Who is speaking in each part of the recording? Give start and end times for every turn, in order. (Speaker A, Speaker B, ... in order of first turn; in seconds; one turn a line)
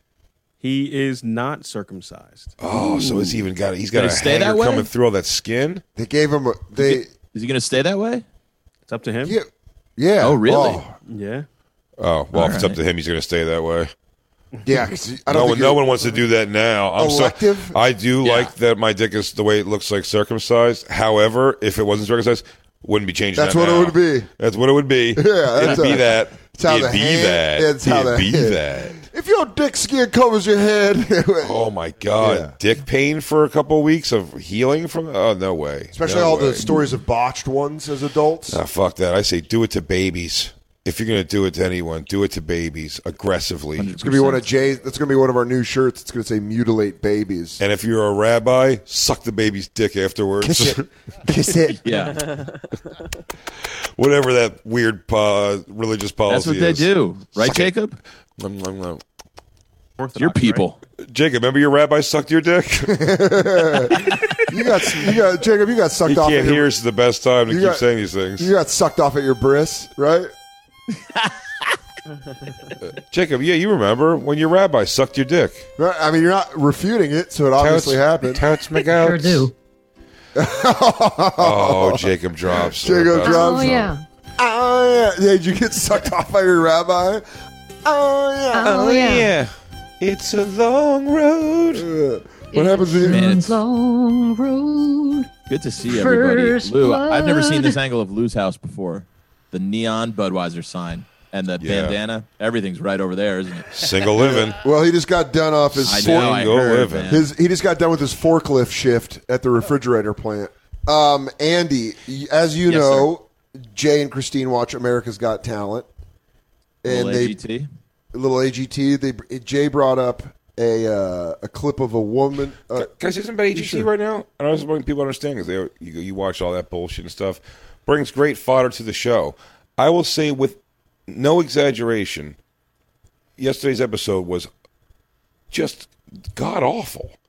Speaker A: 0.6-2.6
Speaker B: 2.6-5.8
Speaker C: 3.9-4.9
Speaker D: 6.0-7.1
Speaker C: 6.7-8.2
Speaker A: 8.9-9.4
Speaker D: 9.2-10.9
Speaker C: 10.2-10.8
Speaker A: 11.0-11.5
Speaker B: 12.0-13.9
Speaker C: 12.3-12.8
Speaker D: 14.6-16.1
Speaker B: 15.3-29.0
Speaker D: 16.9-17.8
Speaker C: 18.2-18.5
Speaker D: 23.3-24.3
Speaker D: 25.1-31.6
Speaker B: 31.4-36.7
Speaker D: 32.2-32.5
Speaker D: 35.9-38.6
Speaker B: 38.5-43.9
Speaker C: 43.8-44.5
Speaker D: 44.0-47.6
Speaker B: 47.6-50.9
Speaker D: 50.4-52.2
Speaker C: 51.8-52.3
Speaker B: 54.0-57.7
Speaker C: 56.3-58.0
Speaker B: 58.4-59.0
Speaker A: 60.0-60.7
Speaker C: 60.1-60.8
Speaker B: 61.0-63.0
Speaker D: 62.9-66.7
Speaker B: 63.9-64.4
Speaker B: 66.0-68.5
Speaker D: 67.5-67.8
Speaker D: 68.4-70.3
Speaker C: 71.1-71.7
Speaker B: 73.0-75.7
Speaker D: 75.8-78.4
Speaker B: 77.6-79.5
Speaker E: 78.7-79.5
Speaker D: 80.3-87.2
Speaker B: 81.4-83.9
Speaker E: 83.2-84.0
Speaker D: 87.8-89.2
Speaker E: 88.5-89.3
Speaker B: 88.7-91.8
Speaker D: 91.7-93.3
Speaker E: 92.5-95.3
Speaker C: 93.0-93.6
Speaker C: 95.5-104.4
Speaker E: 95.8-97.8
Speaker B: 101.6-102.0
Speaker B: 103.7-104.6
Speaker D: 104.5-106.3
Speaker B: 105.7-107.2
Speaker C: 105.8-107.2
Speaker D: 107.1-115.9
Speaker C: 112.7-113.1
Speaker D: 116.8-117.4
Speaker C: 116.8-117.7
Speaker D: 118.1-122.9
Speaker B: 122.8-132.3
Speaker D: 123.5-123.9
Speaker B: 133.4-134.5
Speaker B: 135.5-137.2